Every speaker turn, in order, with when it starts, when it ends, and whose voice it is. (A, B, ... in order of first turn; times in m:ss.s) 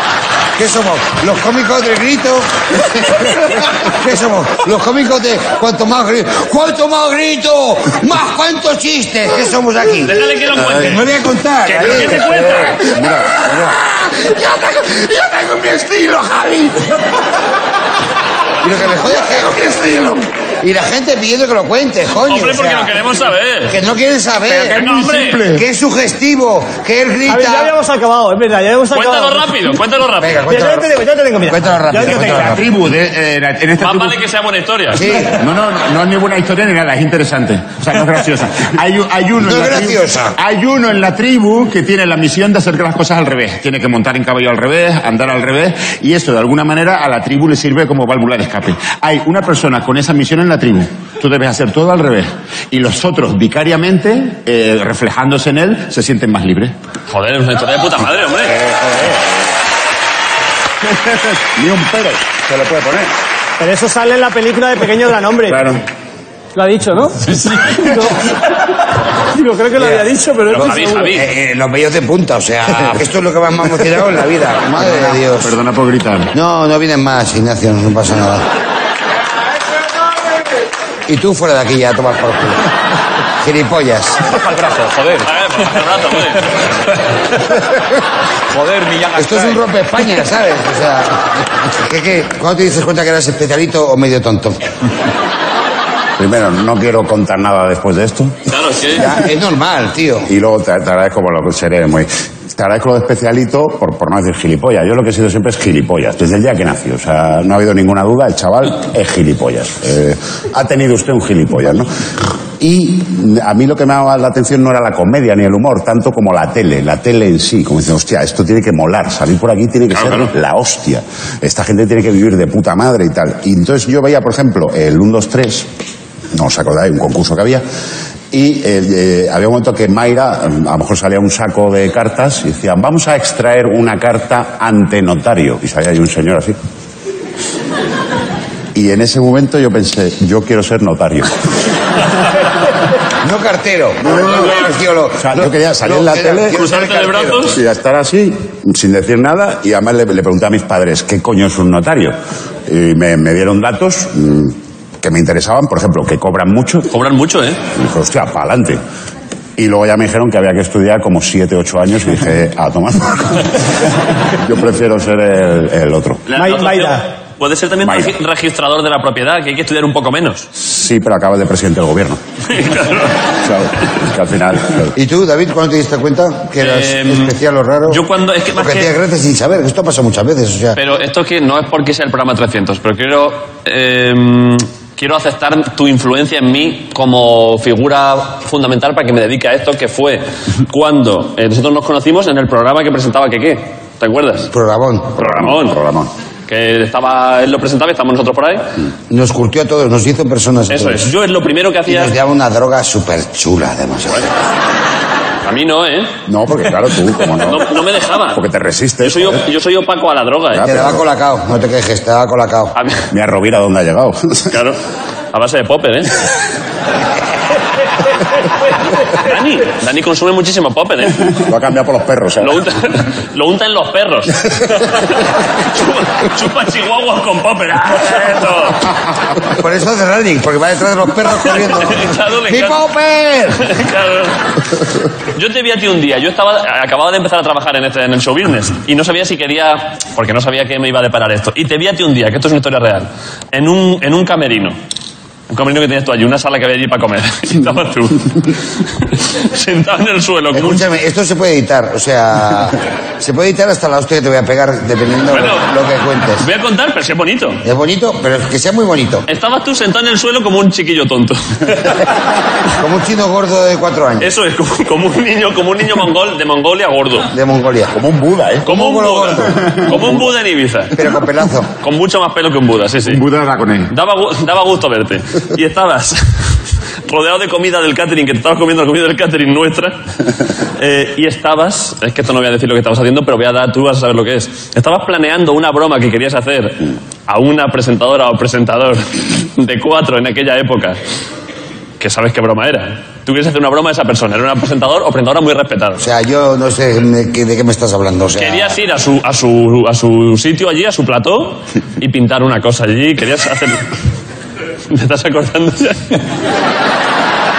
0:00.6-0:16.8 A
0:10.0-0:11.1 B
0:11.6-0:12.8 B
0:18.6-0:23.0 A
0:22.3-0:23.8 B
0:23.7-0:24.8 A
0:24.5-0:25.6 C
0:24.7-0:25.4 B
0:25.5-0:27.7 A
0:27.3-0:29.6 D
0:28.9-0:30.4 B
0:30.2-0:30.9 A
0:30.5-0:32.6 D
0:31.5-0:32.6 A
0:32.0-0:34.2 C
0:33.8-0:35.0 B
0:34.9-0:35.4 A
0:35.2-0:56.7 C
0:39.4-0:40.4 A
0:57.1-0:58.5 B
1:01.6-1:02.2 C
1:02.6-1:02.8 E
1:03.6-1:05.6 D
1:06.5-1:08.3 D
1:09.3-1:11.2 D
1:10.5-1:11.2 B
1:11.1-1:15.5 A
1:14.8-1:16.3 C
1:16.3-1:18.4 A
1:21.1-1:22.6 A
1:23.4-1:24.2 A
1:24.3-1:25.3 F
1:25.2-1:26.6 B
1:28.5-1:29.7 F
1:29.2-1:34.6 A
1:36.2-1:38.4 E
1:38.5-1:39.0 B
1:39.0-1:40.3 A
1:40.3-1:51.9 E
1:52.6-2:05.7 E
2:00.0-2:00.3 B
2:06.3-2:07.6 E
2:08.3-2:16.6 E
2:18.7-2:21.3 E
2:23.2-2:27.5 A
2:25.2-2:26.6 E
2:26.5-2:27.6 B
2:27.5-2:32.2 E
2:32.7-2:36.9 E
2:36.9-2:37.6 B
2:37.8-2:38.8 E
2:39.6-2:43.5 E
2:44.4-2:46.2 E
2:46.3-2:50.5 B
2:46.3-2:47.0 D
2:47.8-2:48.1 E
2:50.6-2:52.2 E
2:52.5-2:53.1 B
2:53.4-2:54.9 E
2:54.9-3:00.8 A
2:56.6-2:57.3 B
2:57.9-2:58.9 B
3:00.7-3:14.5 B
3:14.5-3:15.2 A
3:15.2-3:15.8 B
3:15.2-3:16.1 E
3:16.5-3:18.7 B
3:19.1-3:21.1 A
3:20.7-3:22.1 B
3:21.9-3:24.3 A
3:25.4-3:26.1 B
3:26.2-3:27.6 E
3:27.4-3:28.4 B
3:28.3-3:29.4 E
3:29.0-3:30.8 B
3:30.5-3:31.0 E
3:30.6-3:32.7 A
3:32.8-3:33.0 B
3:33.1-3:34.5 E
3:34.5-3:34.8 B
3:35.3-3:36.1 B
3:39.2-3:41.4 B
3:41.5-3:42.6 E
3:42.4-3:48.8 B
3:49.5-3:53.7 A
3:51.6-3:52.8 B
3:53.6-3:54.4 B
3:55.3-4:04.8 B
4:05.5-4:10.8 B
4:10.5-4:16.4 A
4:15.3-4:15.6 B
4:16.4-4:17.6 B
4:17.6-4:19.2 A
4:19.3-4:22.0 B
4:22.8-4:24.3 A
4:24.2-4:27.3 B
4:27.3-4:27.9 A
4:28.0-4:28.4 E
4:28.6-4:29.9 A
4:28.6-4:30.9 B
4:30.9-4:31.7 A
4:31.8-4:33.2 B
4:33.0-4:33.9 C
4:33.9-4:36.5 B
4:37.1-4:40.0 B
4:40.8-4:51.0 B
4:52.0-4:56.0 B
4:56.0-4:58.8 A
4:58.4-5:03.9 B
5:04.9-5:06.2 B